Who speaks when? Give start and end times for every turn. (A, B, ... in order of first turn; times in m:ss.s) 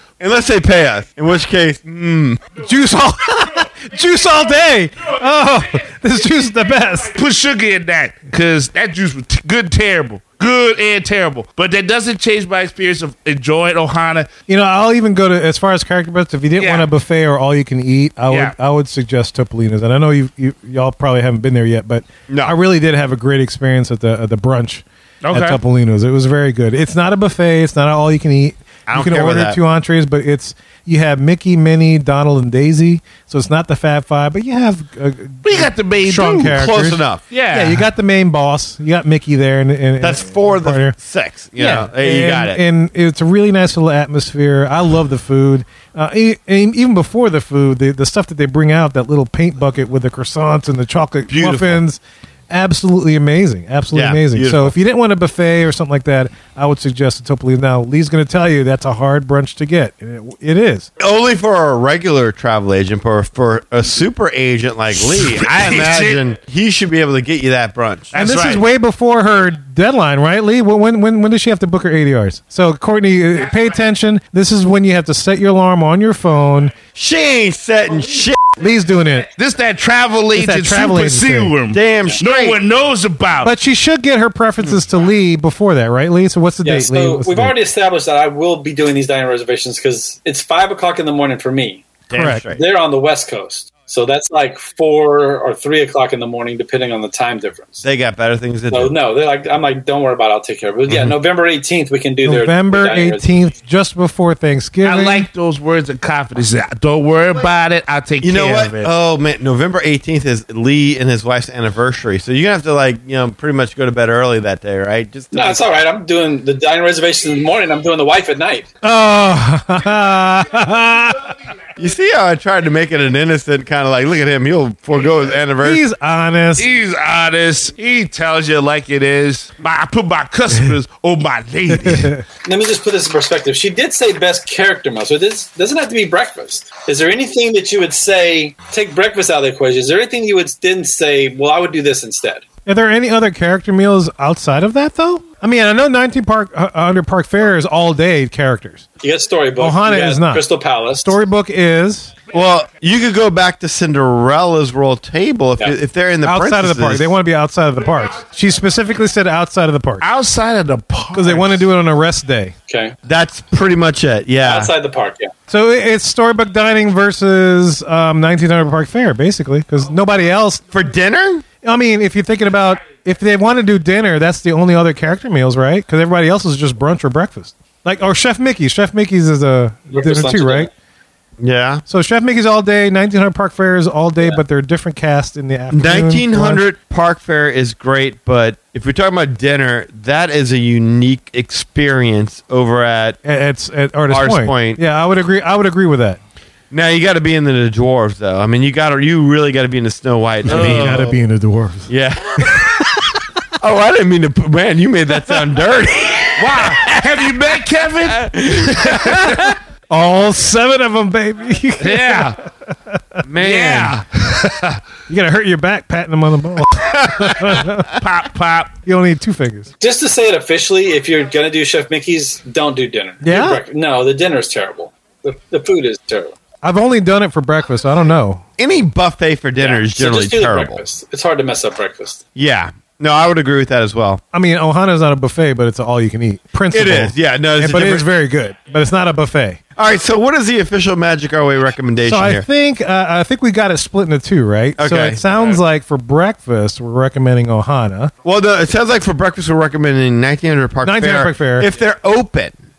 0:00.2-0:02.4 A
0:02.6-0:07.1 B
0:07.1-0:14.3 C
0:14.5-0:41.0 B
0:16.6-0:16.9 C
0:22.3-0:22.6 A
0:25.2-0:25.6 C
0:28.9-0:29.6 A
0:35.4-0:36.6 C
0:36.5-0:37.2 A
0:37.3-0:37.8 C
0:40.0-0:42.6 A
0:41.6-1:00.9 B
0:51.3-0:51.8 A
0:53.9-0:54.8 A
1:01.0-1:08.1 A
1:05.0-1:06.2 C
1:08.1-1:08.6 C
1:08.2-1:16.7 B
1:17.0-1:18.5 A
1:18.6-1:19.3 B
1:19.4-1:23.5 C
1:20.4-1:21.5 B
1:21.7-1:22.6 A
1:23.4-1:27.5 B
1:26.6-1:31.9 D
1:32.1-1:32.6 A
1:32.1-1:32.4 B
1:32.5-1:37.9 D
1:37.8-1:38.9 A
1:38.7-1:43.3 D
1:42.2-1:45.3 B
1:44.8-1:48.9 C
1:48.2-1:55.6 A
1:55.3-1:58.7 D
1:58.8-2:01.4 B
2:01.8-2:05.8 A
2:05.6-2:06.7 B
2:06.6-2:12.1 C
2:11.7-2:12.2 B
2:12.4-2:22.4 D
2:22.7-2:28.8 B
2:29.0-2:31.2 D
2:29.6-2:30.4 B
2:31.0-2:32.1 B
2:32.3-2:37.1 A
2:36.2-2:40.1 B
2:40.0-2:41.7 C
2:41.1-2:42.5 B
2:42.7-2:43.0 D
2:43.0-2:44.7 A
2:44.4-2:45.3 D
2:45.5-2:50.6 B
2:50.7-2:51.4 A
2:51.6-3:00.7 B
2:59.9-3:00.7 D
3:01.4-3:01.8 A
3:01.9-3:06.6 B
3:05.7-3:13.2 A
3:13.2-3:16.2 B
3:14.1-3:14.8 A
3:16.7-3:21.2 A
3:20.5-3:21.1 C
3:20.5-3:21.9 B
3:21.9-3:22.8 A
3:23.6-3:27.4 A
3:26.4-3:29.2 C
3:28.0-3:29.4 A
3:29.0-3:33.2 B
3:31.8-3:32.4 C
3:33.2-3:34.0 A
3:33.4-3:34.8 C
3:35.1-3:37.9 B
3:36.8-3:37.8 A
3:38.0-3:38.7 C
3:38.9-3:39.7 B
3:39.8-3:46.4 D
3:43.2-3:43.6 B
3:46.6-3:48.4 B
3:48.6-3:50.8 A
3:49.6-3:52.2 D
3:52.4-3:54.2 A
3:54.3-3:59.6 B
3:56.7-3:58.1 A
3:59.8-4:02.5 A
4:02.0-4:08.1 B
4:04.8-4:05.2 A
4:08.2-4:12.6 A
4:10.8-4:11.7 B